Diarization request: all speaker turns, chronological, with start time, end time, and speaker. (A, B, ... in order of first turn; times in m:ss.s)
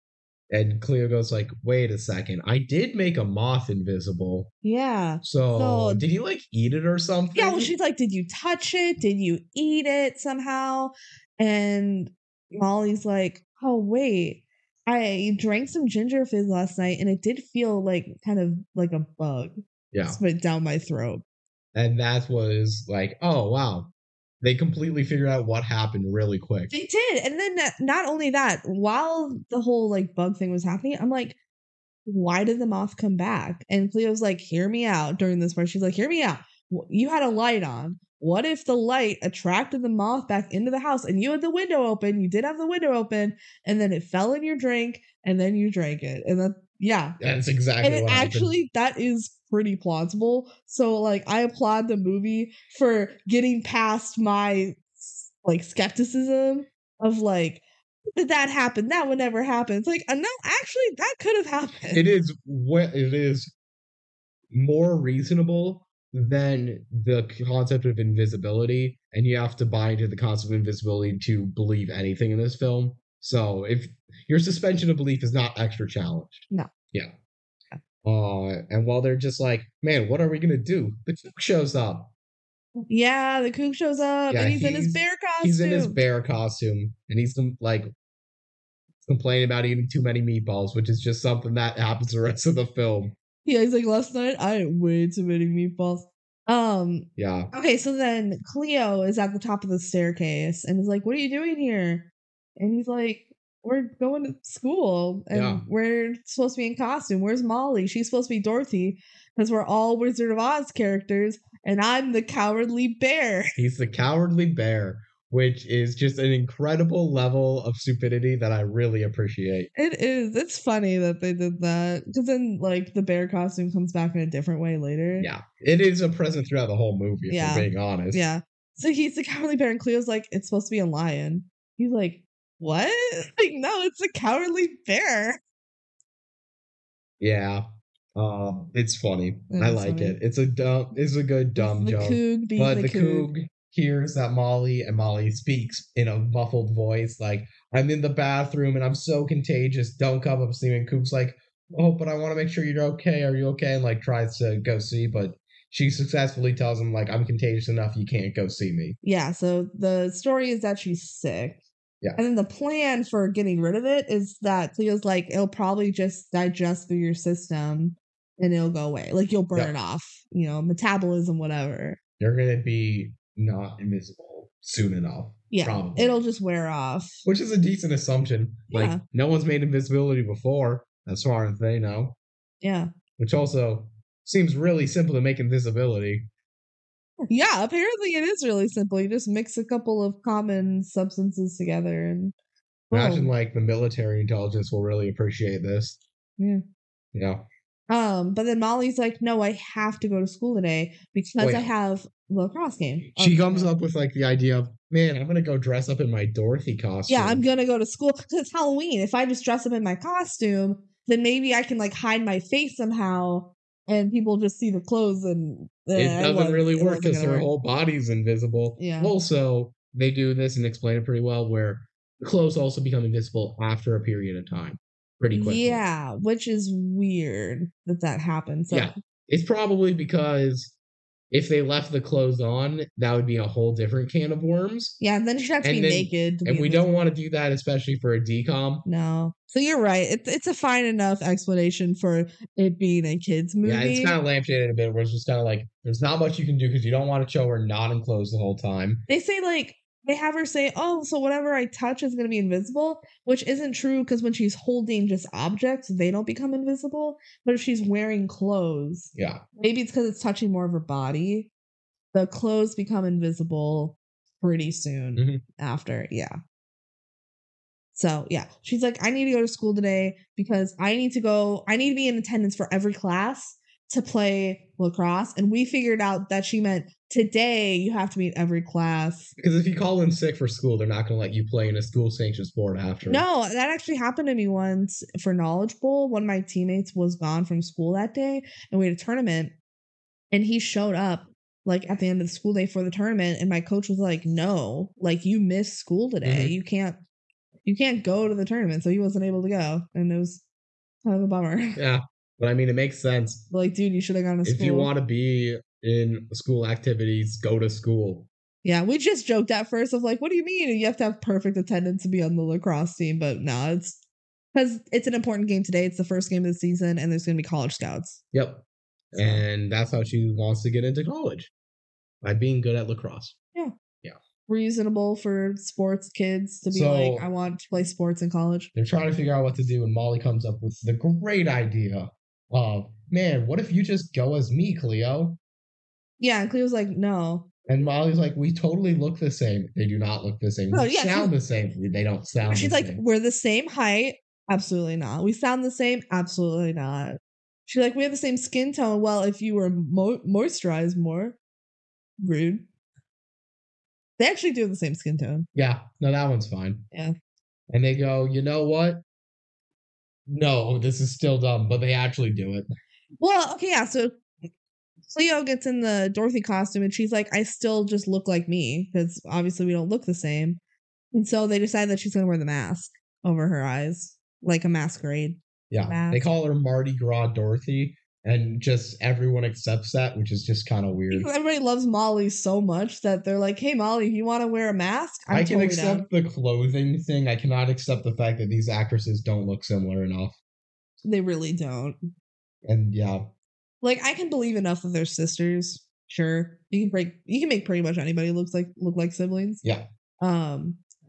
0:00.5-0:04.5 A
0:04.6-0:06.0 B
0:05.2-0:07.7 A
0:07.3-0:21.2 B
0:19.9-0:20.2 A
0:21.7-0:26.7 A
0:26.7-0:31.4 B
0:32.0-0:47.2 B
0:47.2-0:48.5 A
0:47.8-0:57.6 B
0:58.2-1:02.0 B
1:01.9-1:03.5 A
1:04.5-1:17.1 A
1:18.0-1:22.1 A
1:22.9-1:26.0 B
1:24.3-1:27.9 A
1:29.0-1:33.1 A
1:33.4-1:53.5 B
1:37.2-1:37.5 A
1:45.3-1:45.6 A
1:53.6-1:59.7 A
1:59.7-2:05.3 B
2:05.2-2:08.3 A
2:07.3-2:15.4 B
2:17.2-2:39.0 A
2:19.5-2:20.2 B
2:21.6-2:23.3 B
2:39.0-2:41.6 B
2:42.2-2:52.0 B
2:52.2-2:56.2 A
2:55.5-2:57.2 B
2:57.2-3:02.2 A
2:58.7-2:59.0 B
3:02.6-3:02.9 B
3:03.2-3:06.3 A
3:07.3-3:12.3 B
3:12.9-3:13.3 B
3:12.9-3:16.0 A
3:17.1-3:17.4 A
3:17.9-3:23.7 B
3:21.4-3:21.7 A
3:23.2-3:27.4 A
3:27.1-3:37.5 B
3:35.9-3:45.8 A
3:38.8-3:39.1 B
3:45.3-3:48.9 B
3:48.7-3:50.7 A
3:51.3-3:55.0 A
3:55.0-3:57.1 B
3:55.6-3:58.8 A
3:58.8-4:04.2 B
4:03.6-4:09.0 A
4:09.1-4:21.5 B
4:19.1-4:19.4 A
4:22.1-4:26.3 B
4:25.2-4:25.4 A
4:27.9-4:39.3 B
4:39.4-4:43.2 A
4:43.1-4:49.5 B
4:50.3-4:57.0 B
4:56.2-4:56.5 A
4:57.6-5:00.4 B
5:01.0-5:01.8 B
5:01.8-5:03.4 A
5:03.5-5:04.9 B
5:04.4-5:08.3 A
5:08.6-5:14.0 B
5:14.5-5:18.2 B
5:18.3-5:21.5 A
5:19.1-5:19.4 B
5:22.2-5:23.4 A
5:24.5-5:28.7 B
5:26.7-5:27.3 A
5:28.7-5:35.4 A
5:36.2-5:37.4 B
5:37.6-5:43.0 A
5:40.7-5:41.3 B
5:42.4-5:51.4 B
5:52.2-5:52.6 B
5:54.2-5:55.5 B
5:55.5-5:56.8 A
5:57.7-5:59.0 A
6:00.3-6:02.6 A
6:03.2-6:04.2 B
6:05.0-6:10.6 B
6:11.1-6:16.3 B
6:15.7-6:21.3 A
6:21.1-6:26.0 B
6:25.3-6:30.4 A
6:31.0-6:32.0 B
6:32.6-6:33.2 A
6:33.8-6:39.6 B
6:40.2-6:40.8 B